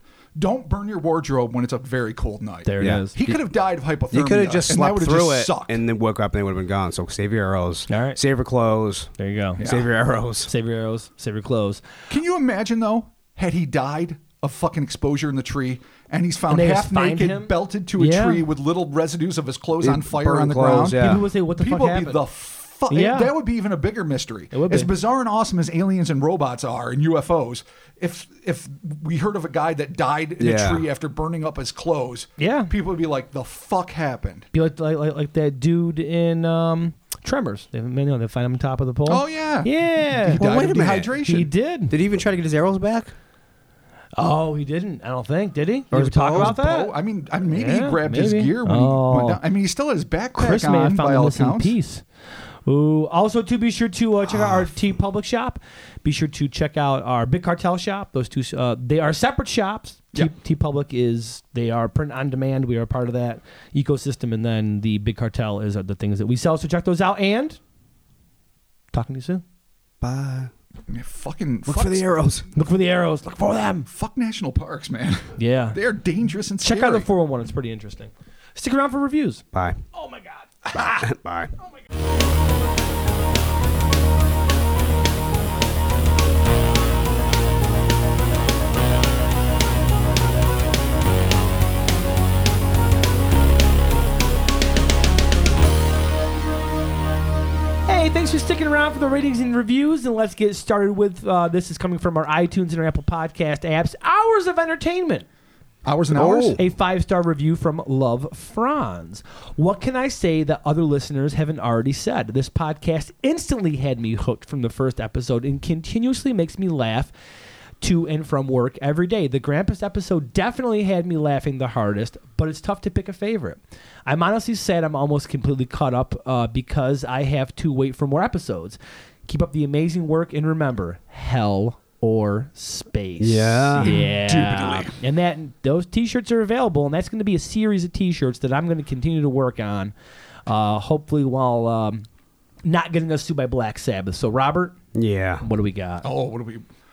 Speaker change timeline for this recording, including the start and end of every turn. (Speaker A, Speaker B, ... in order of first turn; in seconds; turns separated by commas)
Speaker A: 0.3-5.8, Speaker B: 2.6-3.1, Speaker C: 2.8-3.4, Speaker C: 4.1-10.5, Speaker B: 7.9-8.2, Speaker B: 9.2-9.6, Speaker A: 9.6-9.9, Speaker B: 10.4-11.8, Speaker A: 12.1-34.5, Speaker B: 16.5-18.4, Speaker C: 19.8-21.2, Speaker B: 21.0-22.2, Speaker B: 22.9-23.3, Speaker B: 24.5-24.9, Speaker C: 30.4-30.9, Speaker B: 32.4-32.7, Speaker B: 34.5-40.5, Speaker A: 39.1-41.5, Speaker C: 40.3-41.1, Speaker B: 41.1-41.9, Speaker C: 41.9-43.1, Speaker B: 44.1-46.9, Speaker C: 45.9-46.5, Speaker A: 46.3-51.7, Speaker B: 47.5-49.4, Speaker B: 50.4-52.0, Speaker B: 52.6-67.6, Speaker A: 54.4-54.7, Speaker B: 68.9-69.4, Speaker C: 70.0-70.5, Speaker A: 70.9-72.2, Speaker C: 71.7-72.5, Speaker B: 72.5-73.9, Speaker A: 73.9-77.1, Speaker B: 75.4-75.8, Speaker B: 76.6-79.4, Speaker C: 79.5-79.8, Speaker B: 79.9-81.1, Speaker C: 80.7-81.5, Speaker B: 97.9-105.2, Speaker A: 105.8-106.6, Speaker C: 106.1-106.6, Speaker B: 106.5-117.1, Speaker B: 117.8-139.9, Speaker C: 133.2-133.9, Speaker A: 133.8-134.9, Speaker B: 140.4-142.1, Speaker B: 142.6-144.7, Speaker C: 144.9-145.4, Speaker B: 145.4-146.1, Speaker A: 146.0-146.6